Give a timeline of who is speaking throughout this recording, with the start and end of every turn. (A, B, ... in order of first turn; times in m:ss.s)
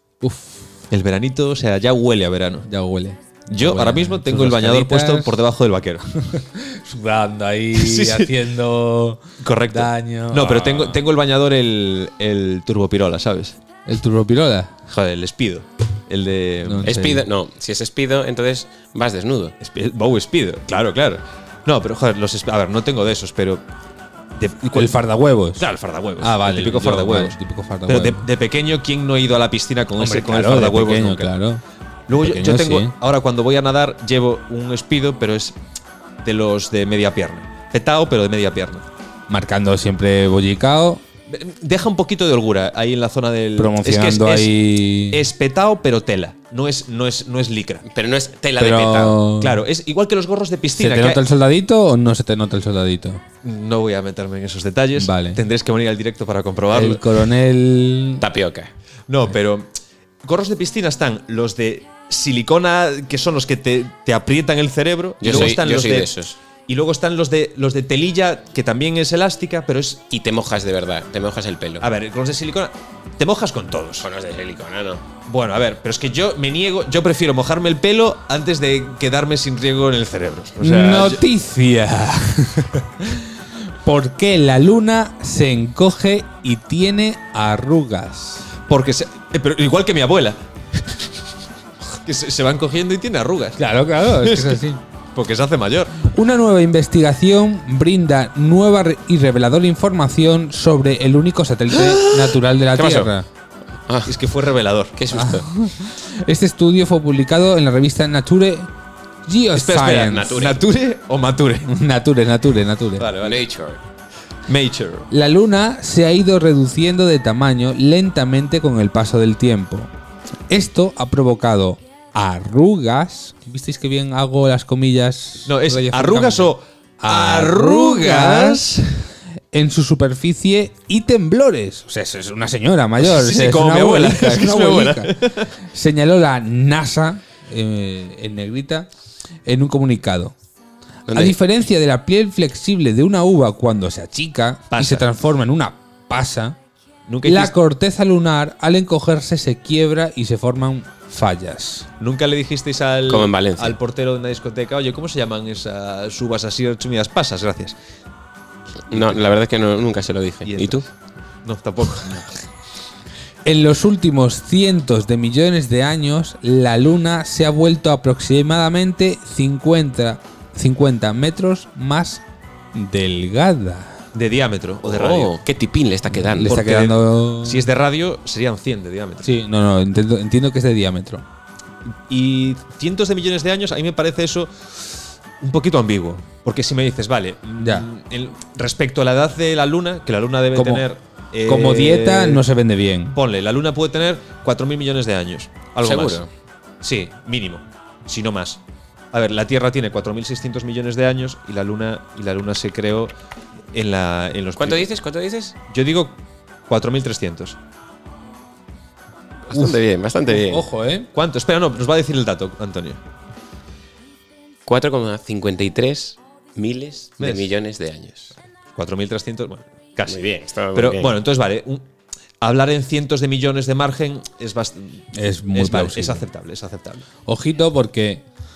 0:00.2-0:00.7 A
0:00.9-0:02.7 B
0:02.6-0:05.4 A
0:03.5-0:06.0 B
0:06.2-0:11.0 A
0:07.7-0:08.3 B
0:09.4-0:13.6 B
0:13.8-0:14.7 A
0:14.9-0:16.9 B
0:16.6-0:17.2 A
0:16.8-0:19.5 C
0:19.6-0:23.6 B
0:24.3-0:25.0 B
0:24.7-0:25.6 A
0:25.6-0:31.3 B
0:26.2-0:28.2 A
0:30.0-0:31.6 A
0:32.1-0:35.6 B
0:32.1-0:32.9 A
0:36.2-0:38.8 B
0:39.3-0:41.0 A
0:41.3-0:44.5 B
0:43.6-0:45.2 A
0:45.1-0:47.8 B
0:47.9-0:49.2 C
0:48.6-0:49.6 A
0:49.4-0:51.2 B
0:50.8-0:53.2 A
0:53.4-0:57.1 B
0:55.0-0:55.4 A
0:56.7-0:58.2 A
0:58.2-0:58.7 C
0:59.1-0:59.7 B
1:00.2-1:06.1 B
1:05.2-1:06.4 C
1:06.7-1:10.1 B
1:10.1-1:11.9 C
1:11.8-1:14.1 B
1:14.0-1:15.0 C
1:15.2-1:21.2 B
1:20.6-1:28.5 A
1:28.7-1:31.2 B
1:31.9-1:34.6 B
1:33.6-1:34.8 A
1:35.1-1:36.0 B
1:36.0-1:43.3 A
1:41.7-1:43.1 C
1:43.9-1:44.2 C
1:44.0-1:45.0 B
1:45.0-1:45.5 C
1:45.1-1:48.7 A
1:49.2-1:50.3 A
1:49.5-1:51.7 B
1:50.1-1:50.6 C
1:51.7-1:53.1 A
1:53.0-1:53.4 B
1:53.2-1:53.8 C
1:54.5-1:55.1 B
1:55.1-1:59.9 A
2:00.5-2:08.6 A
2:05.4-2:08.9 B
2:09.5-2:15.1 A
2:13.0-2:15.5 B
2:15.7-2:18.9 A
2:19.4-2:20.4 A
2:21.1-2:26.6 A
2:21.1-2:21.4 C
2:24.7-2:25.1 B
2:27.1-2:27.6 B
2:27.2-2:31.9 A
2:32.0-2:37.8 B
2:33.1-2:33.8 C
2:38.9-2:40.8 C
2:38.9-2:39.2 B
2:40.4-2:40.9 B
2:41.4-2:42.3 B
2:43.4-2:52.2 A
2:52.7-2:54.0 A
2:54.1-2:55.3 B
2:54.8-2:56.6 C
2:56.1-2:57.6 A
2:56.4-2:59.3 B
2:59.2-3:01.2 A
3:02.1-3:12.4 B
3:07.5-3:07.8 A
3:10.5-3:10.8 A
3:11.4-3:13.2 A
3:13.1-3:16.2 B
3:15.8-3:16.3 C
3:16.8-3:18.6 B
3:19.1-3:23.1 B
3:23.7-3:24.9 B
3:24.6-3:25.6 C
3:25.7-3:27.6 B
3:29.5-3:30.7 C
3:30.3-3:31.1 A
3:31.1-3:33.0 B
3:34.6-3:38.3 C
3:37.2-3:37.5 B
3:38.8-3:40.2 B
3:40.1-3:41.2 C
3:40.7-3:41.8 B
3:42.4-3:47.0 B
3:45.1-3:46.2 A
3:47.2-3:48.2 A